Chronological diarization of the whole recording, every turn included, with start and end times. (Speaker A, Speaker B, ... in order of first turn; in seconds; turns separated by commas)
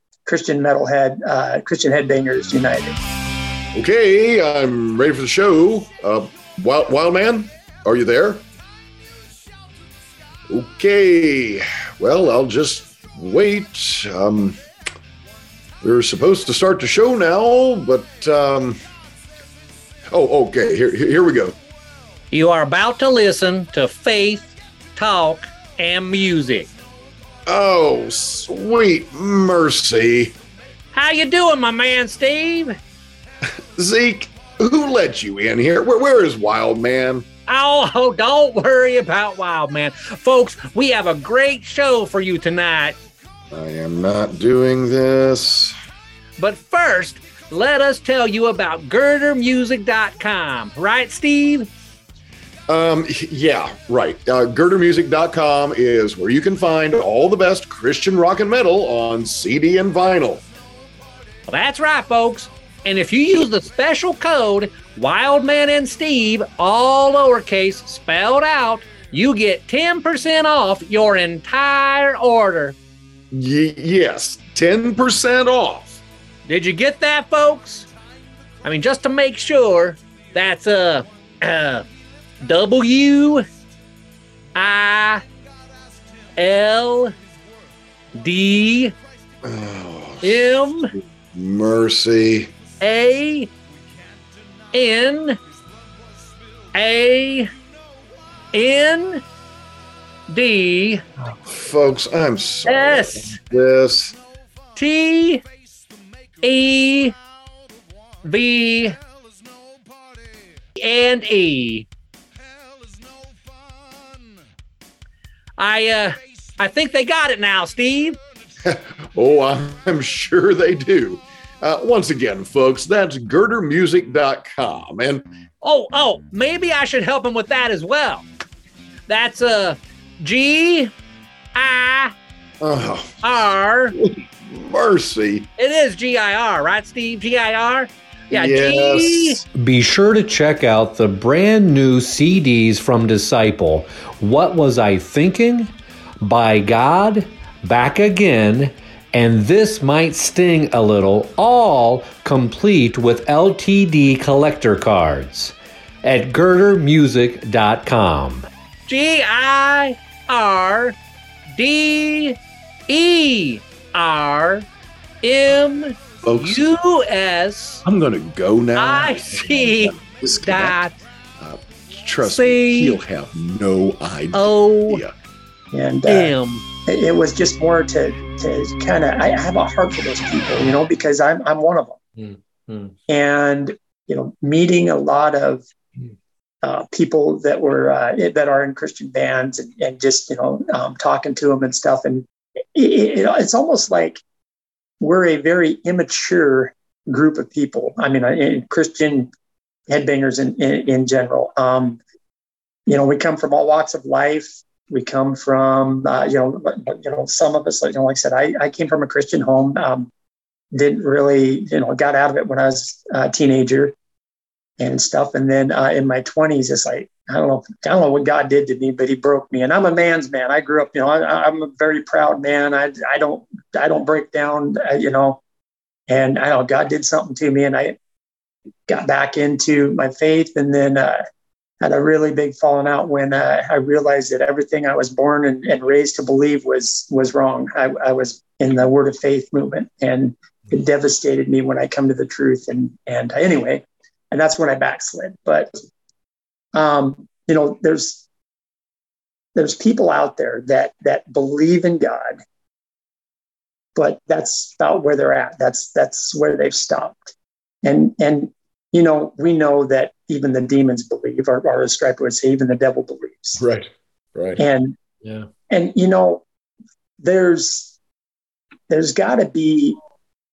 Speaker A: 0.3-3.0, Speaker B: 3.7-8.4, Speaker B: 10.5-14.6, Speaker B: 15.8-18.8, Speaker B: 20.1-21.6, Speaker C: 22.3-26.7, Speaker B: 27.5-30.4, Speaker C: 30.9-32.8, Speaker B: 33.5-37.3, Speaker C: 37.5-43.0, Speaker B: 43.5-45.8, Speaker C: 46.4-51.7, Speaker B: 52.7-60.4, Speaker C: 61.5-72.8, Speaker B: 73.3-76.0, Speaker C: 76.5-77.9, Speaker C: 78.6-81.8, Speaker C: 82.4-83.5, Speaker C: 84.5-85.2, Speaker C: 86.4-87.1, Speaker C: 88.2-88.9, Speaker B: 89.4-90.5, Speaker C: 90.2-90.9, Speaker B: 91.3-92.5, Speaker C: 92.8-93.5, Speaker C: 94.7-95.4, Speaker C: 96.7-97.5, Speaker C: 98.5-99.2, Speaker C: 100.3-101.0, Speaker B: 101.5-104.2, Speaker C: 102.7-103.3, Speaker C: 104.8-105.4, Speaker C: 106.4-107.1, Speaker C: 108.2-109.0, Speaker C: 110.8-111.9, Speaker C: 115.6-118.2, Speaker B: 118.6-125.2, Speaker C: 125.6-128.2, Speaker C: 129.1-130.9, Speaker C: 131.6-132.1, Speaker B: 132.6-135.5, Speaker C: 133.2-133.9, Speaker C: 135.6-139.4, Speaker B: 138.3-139.4, Speaker D: 139.6-158.5, Speaker C: 158.9-161.0, Speaker C: 161.6-162.4, Speaker C: 162.9-164.7, Speaker C: 165.2-167.8, Speaker B: 166.2-166.6, Speaker B: 167.8-170.8, Speaker C: 168.8-170.9, Speaker B: 171.4-175.1, Speaker C: 172.2-173.0, Speaker C: 174.3-175.0, Speaker A: 175.7-176.3, Speaker C: 176.1-176.6, Speaker A: 176.9-182.0, Speaker C: 182.2-182.9, Speaker A: 183.1-185.7, Speaker A: 186.6-194.2, Speaker A: 195.0-199.3, Speaker A: 199.9-202.0, Speaker A: 202.9-210.1, Speaker A: 210.7-213.9, Speaker A: 214.8-225.4, Speaker A: 226.1-228.0, Speaker A: 228.9-231.2, Speaker A: 231.8-245.8, Speaker A: 246.7-248.2, Speaker A: 249.6-252.4, Speaker A: 254.0-263.6, Speaker B: 263.6-264.6, Speaker A: 264.6-264.9, Speaker A: 265.7-266.4, Speaker A: 267.2-267.9, Speaker A: 268.9-270.0